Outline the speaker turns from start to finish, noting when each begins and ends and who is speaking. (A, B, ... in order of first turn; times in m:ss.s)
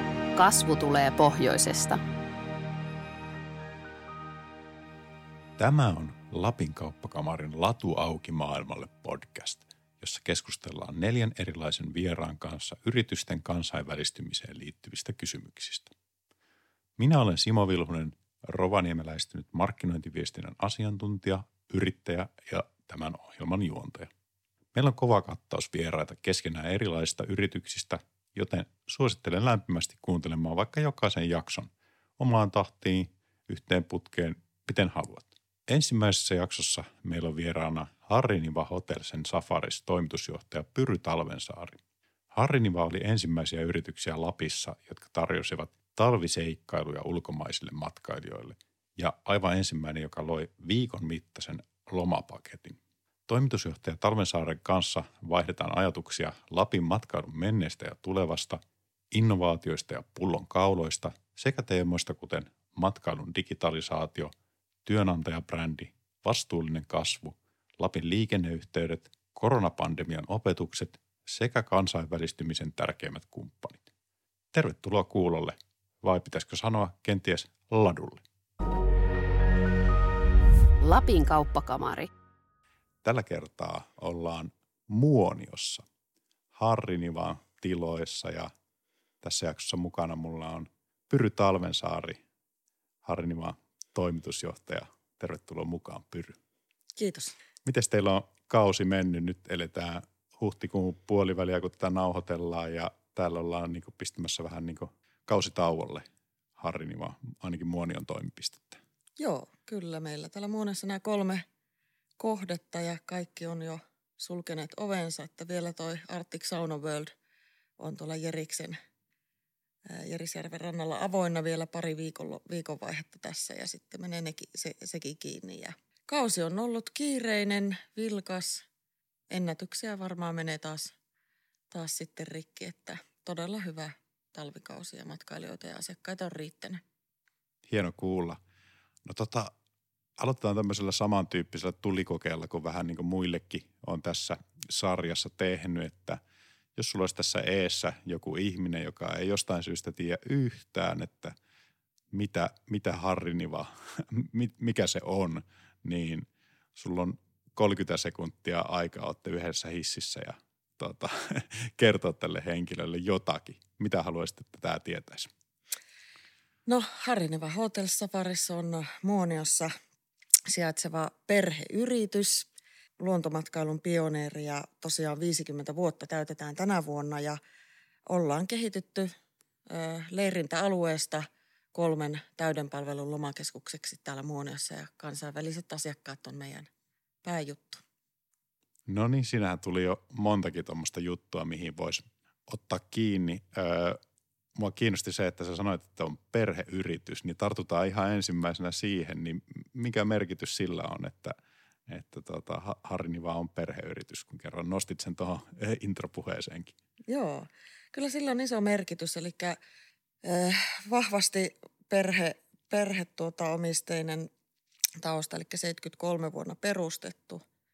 0:00.3-0:02.0 A
0:05.6-0:15.9 B
0:17.0-0:24.1 B
0:24.7-0:41.8 B
0:42.3-1:04.3 B
1:04.8-1:13.8 B
1:14.5-1:18.2 B
1:20.8-1:22.1 A
1:23.0-1:25.8 B
1:26.5-1:28.5 B
1:29.2-1:32.2 B
1:33.0-1:36.4 B
1:37.0-1:37.3 C
1:37.6-1:46.0 B
1:46.6-1:48.8 B
1:49.2-1:51.4 C
1:52.2-1:57.1 C
1:57.8-1:58.8 C
1:59.9-2:08.6 C
2:09.3-2:10.9 C
2:11.7-2:16.8 C
2:17.7-2:18.4 B
2:19.0-2:19.5 B
2:20.2-2:26.2 B
2:26.8-2:31.3 B
2:32.1-2:45.3 B
2:46.6-2:49.7 C
2:50.5-2:52.5 C
2:53.0-2:57.4 C
2:58.1-2:59.1 C
2:59.7-3:06.7 C
3:07.2-3:07.8 C
3:08.8-3:14.0 B
3:14.6-3:21.3 B
3:21.9-3:26.7 B
3:27.1-3:29.6 C
3:30.2-3:34.3 C
3:35.0-3:37.4 C